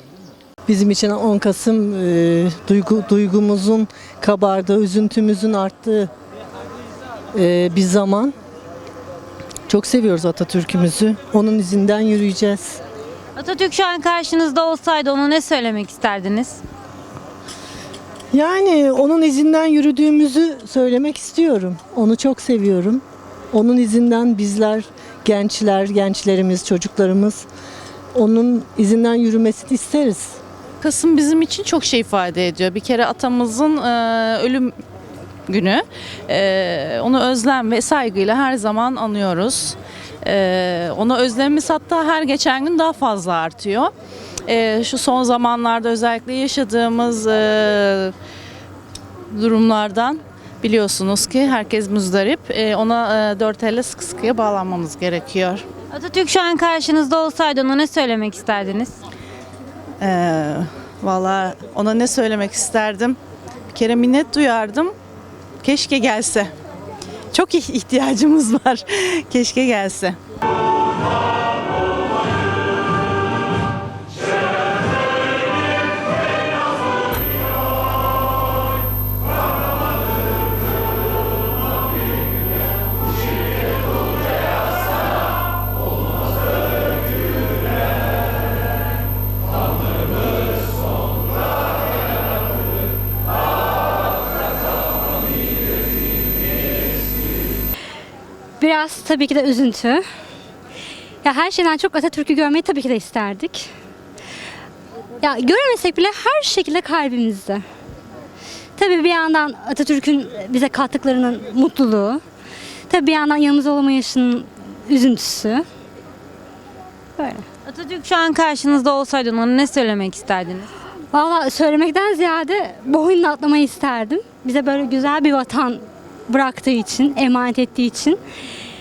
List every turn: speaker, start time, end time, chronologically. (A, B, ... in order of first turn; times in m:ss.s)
0:00.6-0:06.1 A
0:07.3-0:08.3 A
0:09.7-0:12.8 A
0:13.4-0:16.6 B
0:18.3-0:27.4 A
0:28.1-0:30.4 A
0:30.8-0:34.7 C
0:35.5-0:43.9 C
0:44.5-0:48.1 C
0:49.3-0:55.6 C
0:55.9-0:59.0 B
1:00.0-1:03.2 C
1:03.7-1:04.9 C
1:05.6-1:06.5 C
1:07.3-1:10.2 C
1:38.6-1:40.0 D
1:41.2-1:43.7 D
1:45.2-1:47.6 D
1:48.8-1:52.2 D
1:52.9-1:55.6 D
1:57.2-1:57.4 D
1:57.6-2:00.7 B
2:01.1-2:08.2 D